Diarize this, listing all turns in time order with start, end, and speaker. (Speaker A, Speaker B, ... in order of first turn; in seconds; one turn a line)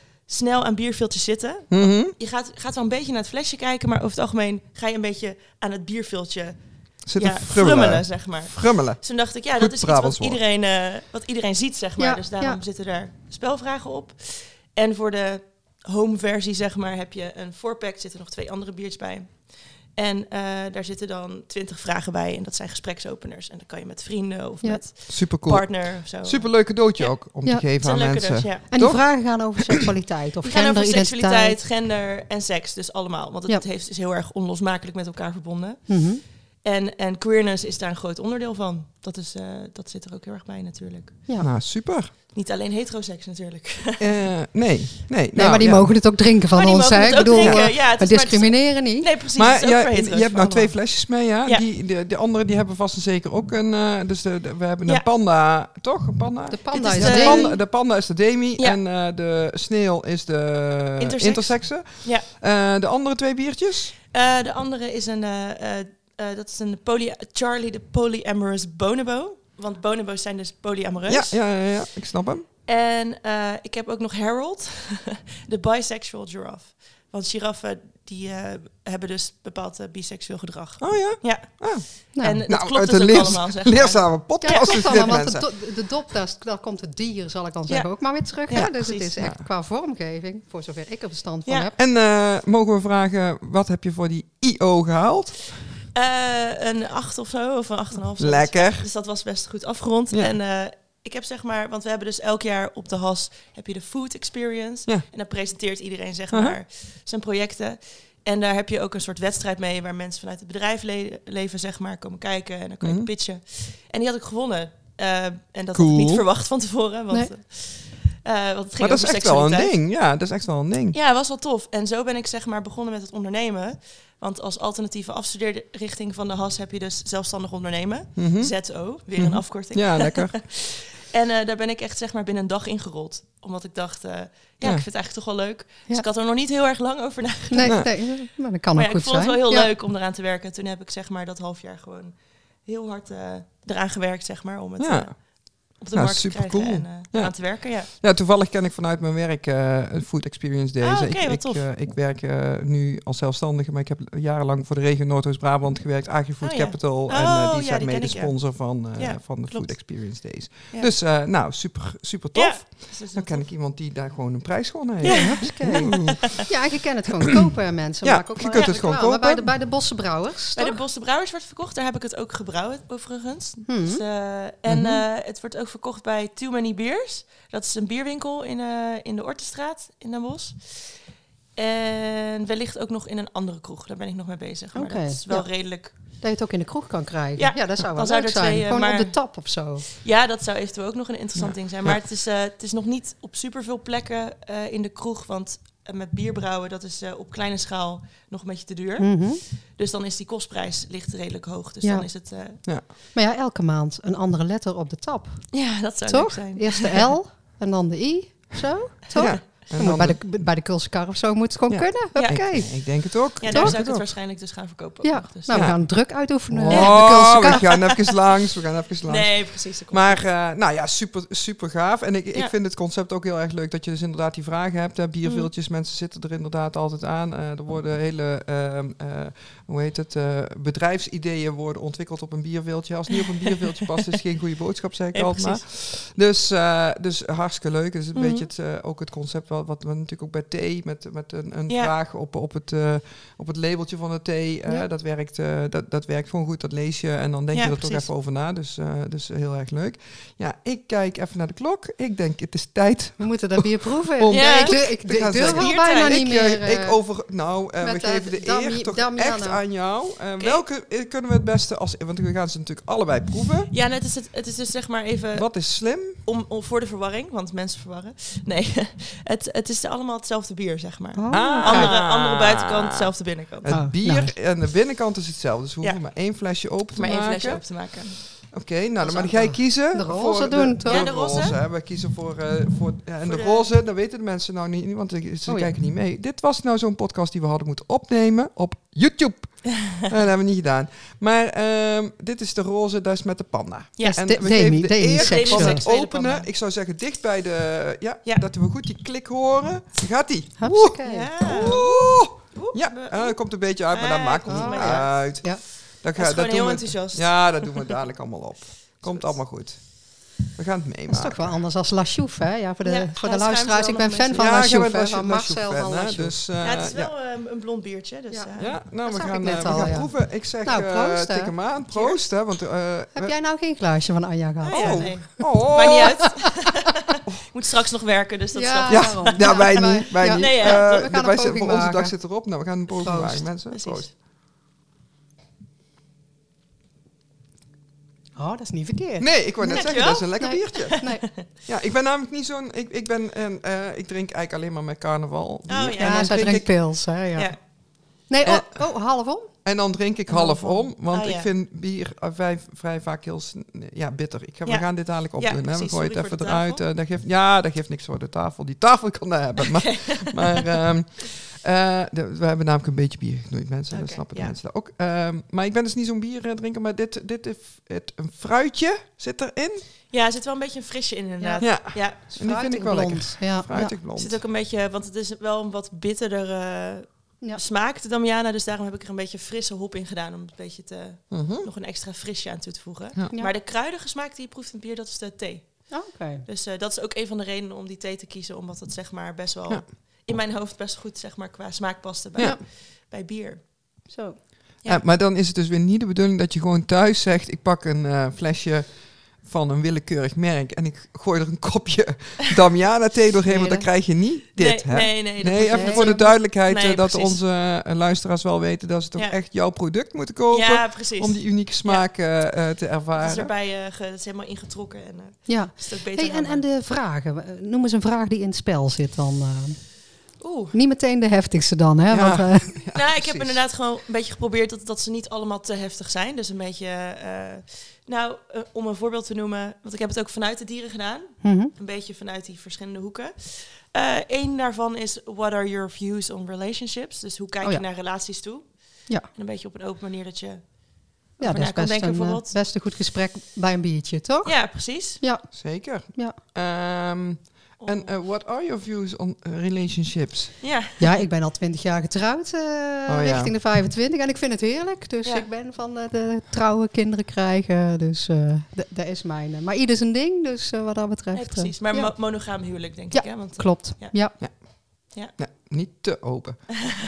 Speaker A: 0.2-6.6
Speaker B: 1.7-2.1
Speaker B: 7.1-9.0
Speaker A: 7.1-27.1
Speaker B: 9.5-10.4
Speaker C: 12.0-12.6
Speaker B: 25.1-29.8
Speaker A: 27.8-28.7
Speaker C: 28.7-31.6
Speaker A: 30.4-36.0
Speaker C: 35.9-36.2
Speaker A: 36.6-41.2
Speaker B: 41.4-42.1
Speaker A: 42.3-44.1
Speaker B: 44.0-46.0
Speaker C: 45.3-49.1
Speaker A: 46.5-51.6
Speaker B: 47.4-47.6
Speaker B: 49.4-63.9
Speaker C: 56.5-57.5
Speaker A: 56.7-57.6
Speaker A: 61.0-62.2
Speaker A: 64.1-71.4
Speaker B: 71.1-72.5
Speaker A: 72.7-85.0
Speaker B: 80.8-81.8
Speaker C: 82.1-82.4
Speaker B: 82.5-85.5
Speaker C: 84.4-91.7
Speaker A: 87.7-89.2
Speaker B: 88.5-89.5
Speaker B: 91.8-95.5
Speaker A: 95.9-119.7
Speaker B: 98.2-98.8
Speaker B: 106.3-106.6
Speaker B: 112.8-113.1
Speaker B: 115.7-116.2
Speaker B: 118.8-121.0
Speaker A: 120.9-138.1
Speaker B: 128.2-128.5
Speaker B: 129.1-130.4
Speaker C: 137.5-139.7
Speaker B: 137.6-137.9
Speaker A: 138.7-147.9
Speaker B: 144.8-145.1
Speaker B: 145.7-166.3
Speaker A: 150.8-151.7
Speaker A: 156.4-160.9
Speaker A: 162.3-163.5
Speaker A: 165.0-166.3
Speaker C: 165.0-170.8
Speaker B: 168.0-169.5
Speaker A: 168.5-168.8
Speaker A: 170.6-181.0
Speaker C: 173.7-174.0
Speaker B: 174.7-175.0
Speaker A: 181.6-185.9
Speaker C: 184.7-189.8
Speaker A: 187.4-189.2
Speaker A: 189.9-202.6
Speaker B: 191.3-192.0
Speaker C: 199.0-199.4
Speaker C: 203.1-205.5
Speaker A: 205.5-207.1
Speaker C: 206.1-213.8
Speaker B: 209.2-210.2
Speaker B: 211.7-214.1
Speaker A: 212.1-212.4
Speaker A: 213.4-215.8
Speaker C: 215.0-217.7
Speaker B: 215.5-263.7
Speaker A: 216.7-218.1
Speaker A: 219.1-220.2
Speaker A: 225.2-225.5
Speaker A: 233.2-234.0
Speaker A: 235.1-235.6
Speaker A: 238.1-238.5
Speaker A: 247.5-248.1
Speaker C: 253.2-257.0
Speaker A: 254.3-254.8
Speaker A: 255.4-256.2
Speaker C: 257.8-259.6
Speaker A: 263.7-273.7
Speaker B: 265.3-266.2
Speaker C: 271.1-272.0
Speaker B: 271.3-273.1
Speaker B: 273.6-277.7
Speaker C: 273.7-274.3
Speaker A: 276.9-278.4
Speaker B: 278.3-311.5
Speaker A: 279.0-279.6
Speaker C: 279.5-281.1
Speaker A: 280.8-281.6
Speaker A: 283.2-283.7
Speaker C: 285.5-285.7
Speaker A: 294.0-294.2
Speaker C: 294.0-295.8
Speaker A: 295.1-296.5
Speaker C: 300.6-301.3
Speaker A: 301.0-305.1
Speaker C: 304.5-305.6
Speaker A: 306.1-308.0
Speaker A: 309.0-309.4
Speaker C: 311.1-316.4
Speaker A: 312.8-314.5
Speaker B: 314.3-317.1
Speaker A: 316.6-318.8
Speaker C: 318.3-321.5
Speaker B: 318.6-323.3
Speaker A: 319.4-319.9
Speaker A: 321.9-322.2
Speaker C: 323.1-326.3
Speaker A: 324.6-331.1
Speaker B: 324.7-326.2
Speaker C: 328.5-332.2
Speaker B: 328.9-334.1
Speaker C: 333.0-333.4
Speaker A: 333.7-334.1
Speaker C: 338.4-341.2
Speaker B: 339.2-346.7
Speaker A: 339.7-341.4
Speaker A: 345.7-346.8
Speaker C: 346.0-349.5
Speaker B: 348.4-348.7
Speaker B: 349.6-369.9
Speaker A: 350.3-351.5
Speaker A: 354.6-356.8
Speaker A: 359.6-360.7
Speaker A: 363.9-364.5
Speaker A: 370.1-372.2
Speaker C: 371.4-373.9
Speaker B: 371.6-374.4
Speaker A: 374.1-393.6
Speaker B: 381.3-381.7
Speaker C: 385.9-386.4
Speaker C: 394.1-394.4
Speaker B: 394.9-413.5
Speaker A: 403.5-403.8
Speaker A: 404.5-407.4
Speaker C: 405.6-406.1
Speaker A: 410.5-412.1
Speaker A: 413.1-416.6
Speaker C: 415.5-420.0
Speaker A: 420.4-420.7
Speaker C: 420.7-422.8
Speaker B: 422.1-423.6
Speaker A: 422.9-442.5
Speaker C: 431.4-431.7
Speaker C: 441.4-444.6
Speaker A: 444.4-445.2
Speaker C: 445.2-445.4
Speaker B: 445.5-450.5
Speaker C: 446.1-446.4
Speaker A: 447.8-448.1
Speaker A: 450.6-451.2
Speaker C: 451.0-462.1
Speaker B: 453.1-453.5
Speaker A: 461.3-464.1
Speaker C: 463.1-464.3
Speaker B: 465.4-466.7